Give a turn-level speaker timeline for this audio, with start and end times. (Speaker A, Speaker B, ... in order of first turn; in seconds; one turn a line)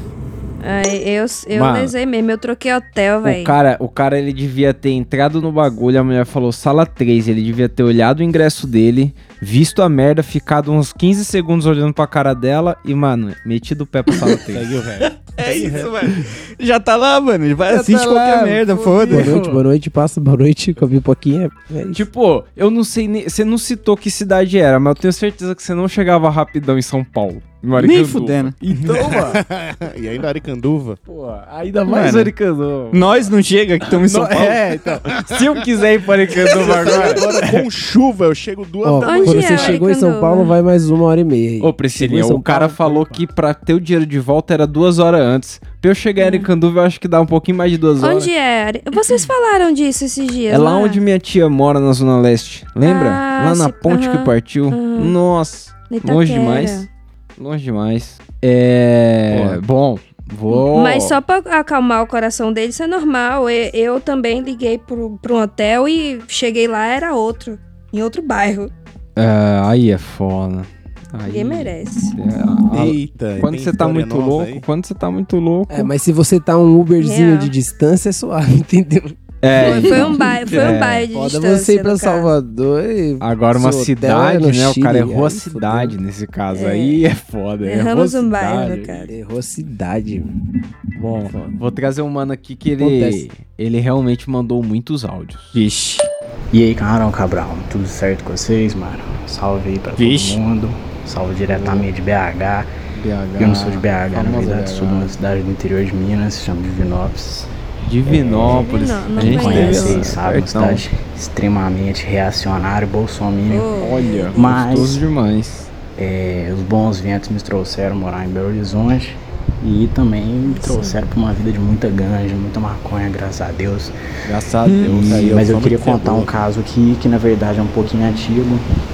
Speaker A: 0.6-3.5
Speaker B: 1.5-1.9
Speaker B: 3.2-14.8
Speaker C: 14.6-15.9
Speaker D: 15.4-19.4
Speaker B: 17.7-19.6
Speaker E: 19.1-22.1
Speaker B: 21.9-29.4
Speaker D: 27.8-28.6
Speaker C: 28.9-31.0
Speaker B: 31.1-33.2
Speaker D: 31.9-32.3
Speaker D: 32.9-34.6
Speaker B: 33.9-37.7
Speaker C: 34.7-35.7
Speaker C: 36.2-39.8
Speaker E: 38.8-43.2
Speaker A: 39.0-40.6
Speaker B: 41.6-48.3
Speaker A: 46.2-46.5
Speaker A: 48.0-51.0
Speaker B: 50.5-56.9
Speaker A: 52.8-55.2
Speaker A: 55.9-56.9
Speaker B: 57.4-61.2
Speaker A: 60.5-68.7
Speaker B: 69.2-75.9
Speaker A: 71.3-72.2
Speaker C: 72.7-74.7
Speaker E: 75.7-86.0
Speaker A: 77.0-77.5
Speaker B: 79.4-81.1
Speaker A: 79.6-82.3
Speaker B: 83.2-89.1
Speaker A: 86.5-87.0
Speaker A: 87.6-89.1
Speaker E: 89.1-90.3
Speaker B: 91.0-95.6
Speaker E: 91.2-91.7
Speaker E: 92.8-93.3
Speaker D: 95.5-96.1
Speaker F: 96.5-102.7
Speaker D: 100.0-100.4
Speaker B: 101.5-101.9
Speaker B: 103.0-105.2
Speaker F: 103.4-107.5
Speaker B: 107.8-110.8
Speaker F: 108.1-113.7
Speaker A: 108.4-110.1
Speaker A: 113.5-114.6
Speaker B: 113.8-115.7
Speaker F: 114.3-115.0
Speaker F: 116.0-123.9
Speaker A: 120.5-121.0
Speaker B: 124.2-125.6
Speaker F: 124.8-128.7
Speaker C: 124.8-126.3